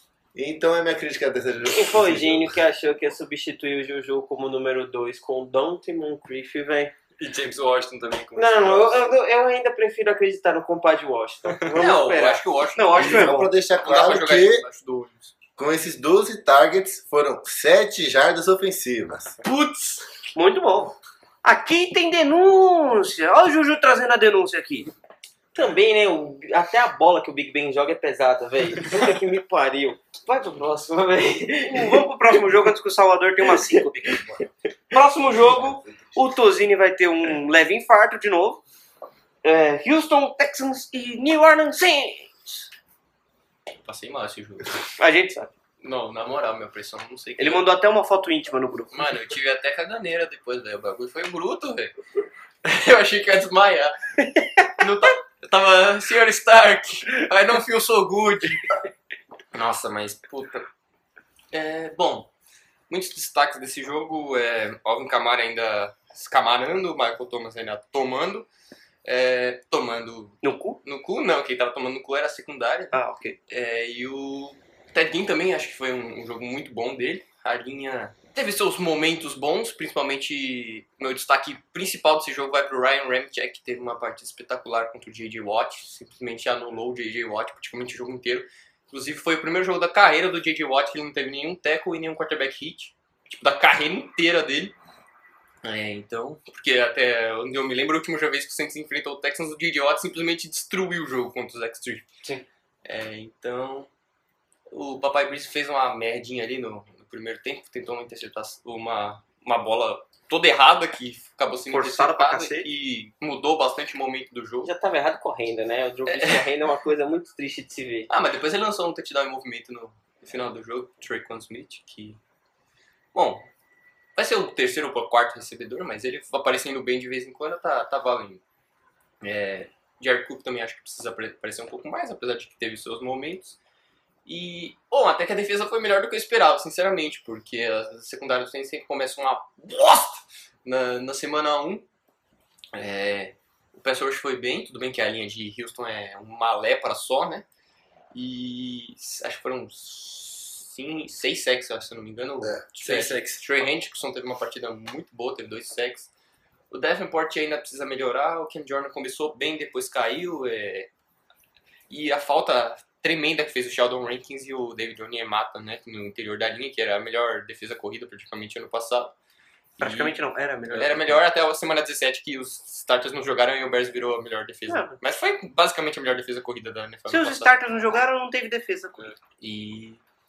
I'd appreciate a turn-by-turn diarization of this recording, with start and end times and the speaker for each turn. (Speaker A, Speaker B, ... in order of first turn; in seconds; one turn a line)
Speaker A: 0.3-2.6
Speaker B: 1.7-6.9
Speaker C: 7.2-9.1
Speaker B: 8.3-12.4
Speaker D: 11.7-15.3
Speaker E: 12.7-13.5
Speaker A: 12.9-14.6
Speaker A: 15.6-19.4
Speaker D: 19.5-19.9
Speaker E: 20.3-24.9
Speaker B: 25.5-32.0
Speaker E: 31.7-34.3
Speaker E: 34.9-38.6
Speaker A: 35.2-36.3
Speaker E: 39.4-42.6
Speaker D: 43.9-44.9
Speaker E: 45.0-45.5
Speaker D: 45.8-47.6
Speaker E: 47.4-49.0
Speaker D: 48.9-51.9
Speaker D: 52.6-54.0
Speaker D: 54.6-58.6
Speaker D: 59.5-60.6
Speaker D: 61.5-62.3
Speaker D: 62.9-68.5
Speaker D: 69.0-73.0
Speaker E: 70.4-70.8
Speaker E: 72.9-73.4
Speaker D: 73.5-94.7
Speaker D: 95.6-102.0
Speaker D: 102.8-103.9
Speaker D: 104.7-114.7
Speaker E: 111.7-112.7
Speaker B: 114.6-118.1
Speaker D: 116.1-116.5
Speaker D: 118.1-122.2
Speaker D: 123.1-123.5
Speaker D: 124.2-128.4
Speaker D: 129.2-133.6
Speaker D: 134.2-141.8
Speaker D: 142.7-147.4
Speaker D: 148.1-156.1
Speaker C: 152.7-153.4
Speaker D: 156.7-160.9
Speaker D: 161.9-169.1
Speaker D: 169.8-170.2
Speaker E: 169.8-171.3
Speaker D: 170.7-177.5
Speaker E: 174.7-174.9
Speaker E: 177.1-179.1
Speaker D: 179.4-180.0